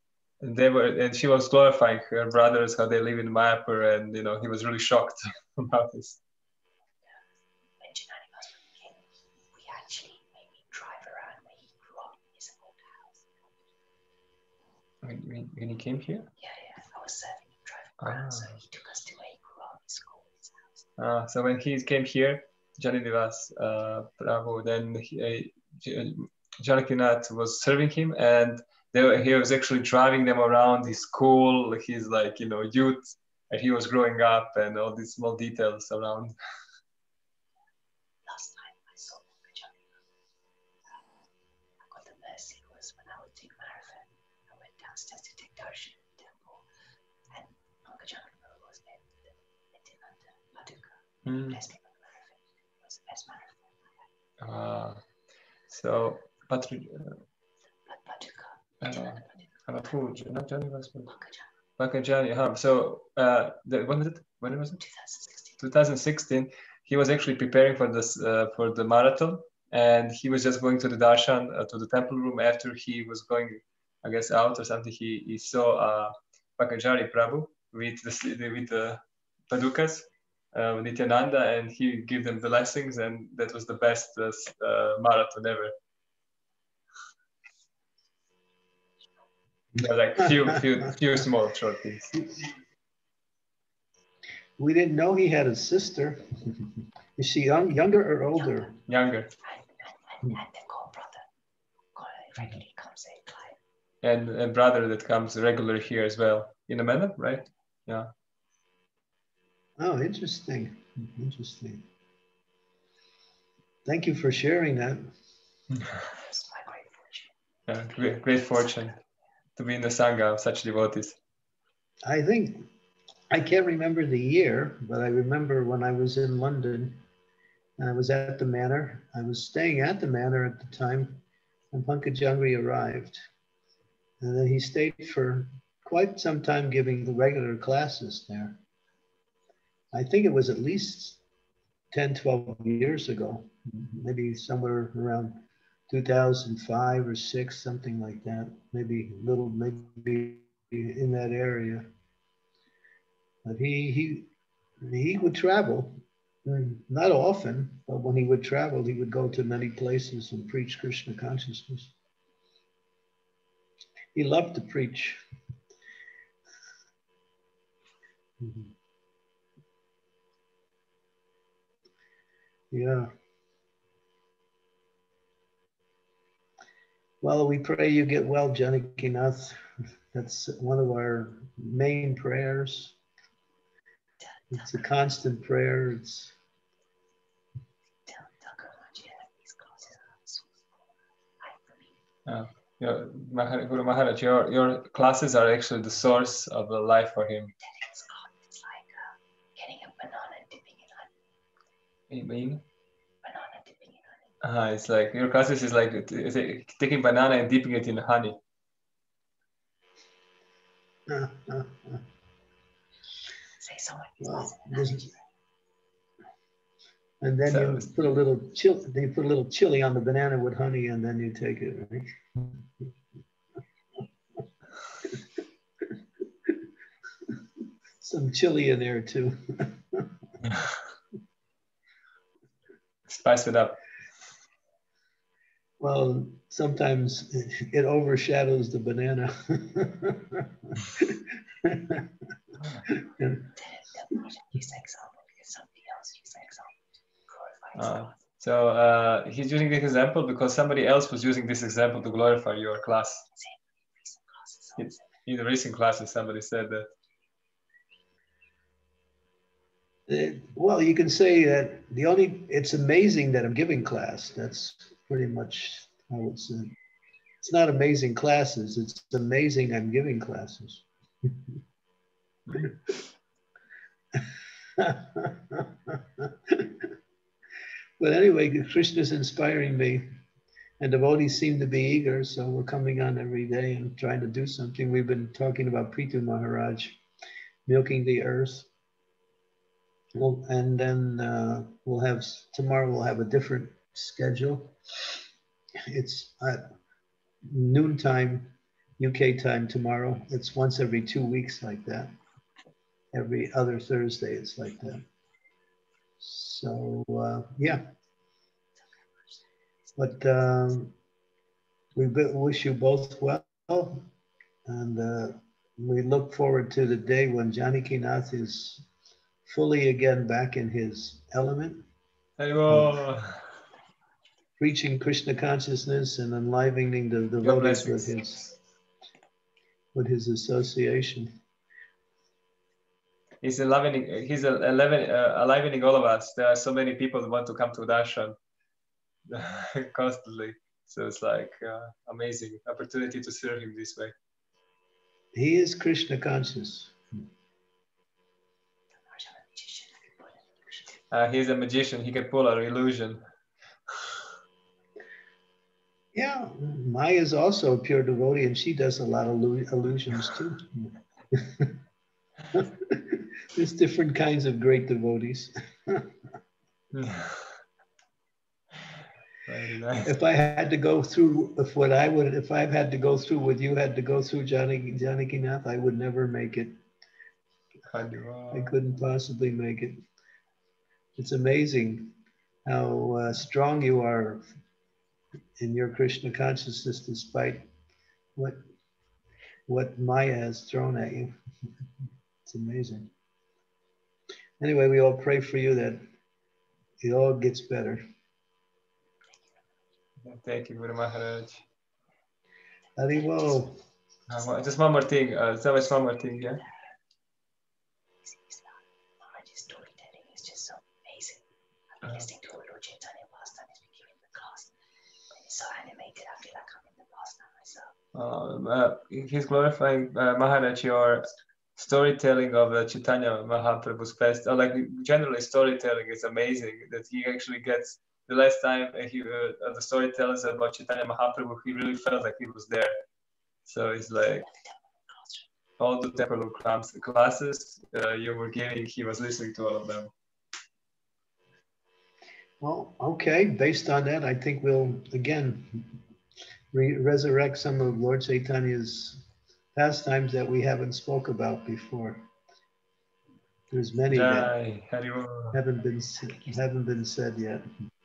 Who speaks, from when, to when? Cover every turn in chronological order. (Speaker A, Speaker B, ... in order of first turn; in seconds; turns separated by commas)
Speaker A: 0.4-6.2, Speaker B: 7.8-9.0, Speaker B: 9.5-13.3, Speaker A: 15.0-16.3, Speaker B: 16.4-20.9, Speaker A: 18.0-18.6, Speaker A: 21.0-36.3, Speaker B: 38.2-39.7, Speaker B: 41.8-46.6, Speaker B: 47.3-53.7, Speaker A: 51.2-51.6, Speaker A: 54.4-55.0, Speaker A: 55.7-57.2, Speaker B: 57.9-59.9, Speaker A: 58.8-61.1, Speaker B: 61.1-61.5, Speaker A: 61.8-64.8, Speaker B: 64.8-65.6, Speaker A: 65.6-85.7, Speaker A: 89.8-92.2, Speaker C: 90.2-90.6, Speaker C: 94.6-96.2, Speaker C: 97.2-98.7, Speaker B: 98.4-98.7, Speaker A: 98.9-99.3, Speaker B: 99.4-101.2, Speaker B: 101.9-103.6, Speaker A: 104.0-108.1, Speaker C: 109.8-111.8, Speaker C: 113.8-115.0, Speaker A: 115.8-116.0, Speaker B: 116.1-117.3, Speaker A: 117.7-118.9, Speaker B: 118.5-119.0, Speaker A: 119.5-121.2, Speaker C: 122.0-122.7, Speaker C: 123.3-127.0, Speaker C: 127.8-133.2, Speaker C: 134.2-138.6, Speaker C: 139.9-141.2, Speaker C: 141.9-151.9, Speaker C: 153.4-154.3, Speaker C: 154.8-161.9, Speaker C: 164.1-165.2, Speaker C: 168.4-168.7, Speaker C: 172.7-173.1, Speaker C: 177.2-179.6, Speaker C: 180.1-182.9, Speaker C: 184.5-186.3, Speaker B: 184.5-184.8, Speaker B: 188.1-190.6, Speaker B: 191.4-191.9, Speaker A: 192.2-197.5, Speaker B: 197.7-199.0, Speaker B: 199.6-201.1, Speaker A: 202.1-202.6, Speaker B: 203.2-204.3, Speaker A: 204.4-208.4, Speaker C: 211.1-212.0, Speaker B: 213.6-215.2, Speaker C: 214.2-215.1, Speaker C: 217.2-222.1, Speaker A: 217.5-217.9, Speaker C: 228.0-230.0, Speaker A: 233.1-233.8, Speaker C: 235.8-242.0, Speaker C: 243.0-243.5, Speaker B: 243.6-246.7, Speaker B: 247.2-248.2, Speaker A: 247.7-253.2, Speaker B: 253.3-255.1, Speaker A: 254.8-256.9, Speaker C: 260.1-266.7, Speaker C: 267.4-271.3, Speaker C: 274.8-276.7, Speaker C: 278.0-280.1, Speaker C: 280.8-287.0, Speaker C: 287.7-288.7, Speaker C: 290.1-294.7, Speaker C: 295.9-296.6, Speaker C: 297.5-302.1, Speaker C: 303.1-305.1, Speaker C: 306.2-307.8, Speaker C: 310.0-310.9, Speaker C: 311.9-314.0, Speaker C: 314.7-318.8, Speaker C: 319.4-321.9, Speaker A: 322.4-323.4, Speaker C: 322.7-322.9, Speaker C: 324.6-328.5, Speaker A: 327.4-328.1, Speaker C: 329.9-331.3, Speaker A: 333.4-338.4, Speaker A: 339.3-344.1, Speaker C: 345.3-347.0, Speaker B: 348.9-351.0, Speaker A: 351.1-353.2, Speaker C: 356.1-361.7, Speaker C: 362.5-366.1, Speaker A: 366.9-367.6, Speaker A: 369.4-370.1, Speaker C: 370.0-376.8, Speaker A: 377.9-378.8, Speaker C: 378.5-380.0, Speaker C: 381.2-382.1, Speaker C: 382.6-384.4, Speaker C: 385.6-387.7, Speaker C: 389.7-391.3, Speaker C: 392.4-393.1, Speaker C: 394.6-396.0, Speaker C: 397.0-398.0, Speaker B: 399.3-399.6, Speaker A: 400.2-401.6, Speaker C: 403.0-403.8, Speaker B: 403.1-403.6, Speaker A: 404.3-406.6, Speaker B: 406.6-406.9, Speaker B: 408.2-414.7, Speaker B: 415.3-417.9, Speaker A: 418.1-432.9, Speaker A: 433.6-434.4, Speaker B: 434.4-435.5, Speaker A: 435.8-440.1, Speaker C: 442.6-445.8, Speaker C: 446.7-449.2, Speaker C: 449.7-452.3, Speaker C: 453.7-454.5, Speaker A: 454.1-455.6, Speaker C: 455.5-457.6